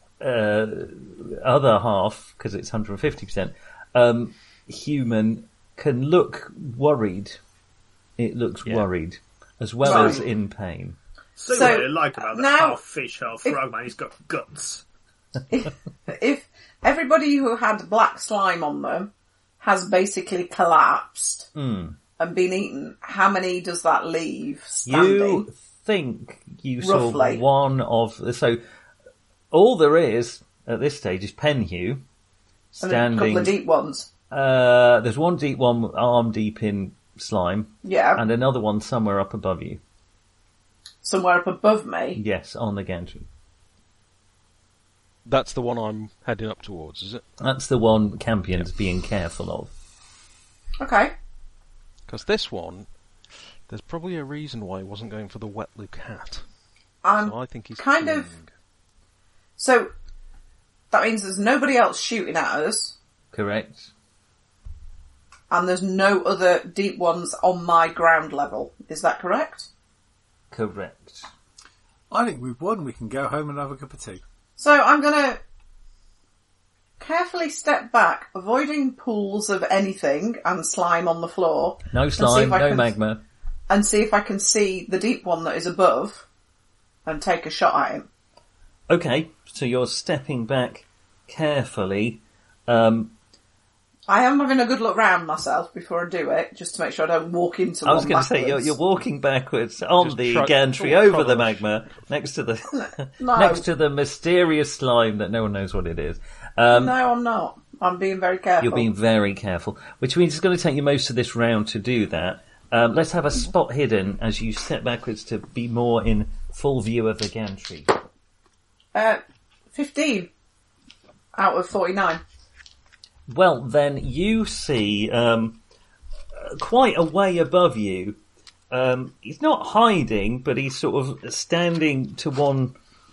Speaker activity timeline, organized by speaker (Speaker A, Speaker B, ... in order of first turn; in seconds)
Speaker A: 0.2-7.4, 8.2-11.0, 21.5-22.0, 24.9-28.6, 29.5-32.0, 32.7-33.5, 34.3-39.8, 42.1-43.3, 47.4-49.7, 63.3-63.9, 70.5-71.3, 81.9-83.2, 88.9-93.1, 97.8-107.0, 108.6-117.9, 123.3-125.6, 126.3-128.2, 128.7-132.7
Speaker B: 9.8-10.2, 11.5-12.8, 15.5-21.5, 22.2-25.5, 26.8-27.4, 32.8-34.1, 37.8-38.2, 41.0-42.2, 50.8-51.1, 57.0-58.3, 59.6-59.9, 60.9-62.9, 65.5-69.7, 74.6-75.4, 77.0-82.9, 83.7-86.2, 87.0-88.1, 94.1-98.7, 102.7-103.7, 106.7-108.9, 118.9-119.2, 119.7-120.3, 121.3-122.2
Speaker C: 9.8-10.2, 11.4-14.8
Speaker D: 45.2-47.2, 52.1-52.9, 53.7-56.4, 57.2-58.5, 100.0-101.7
Speaker E: 72.1-74.2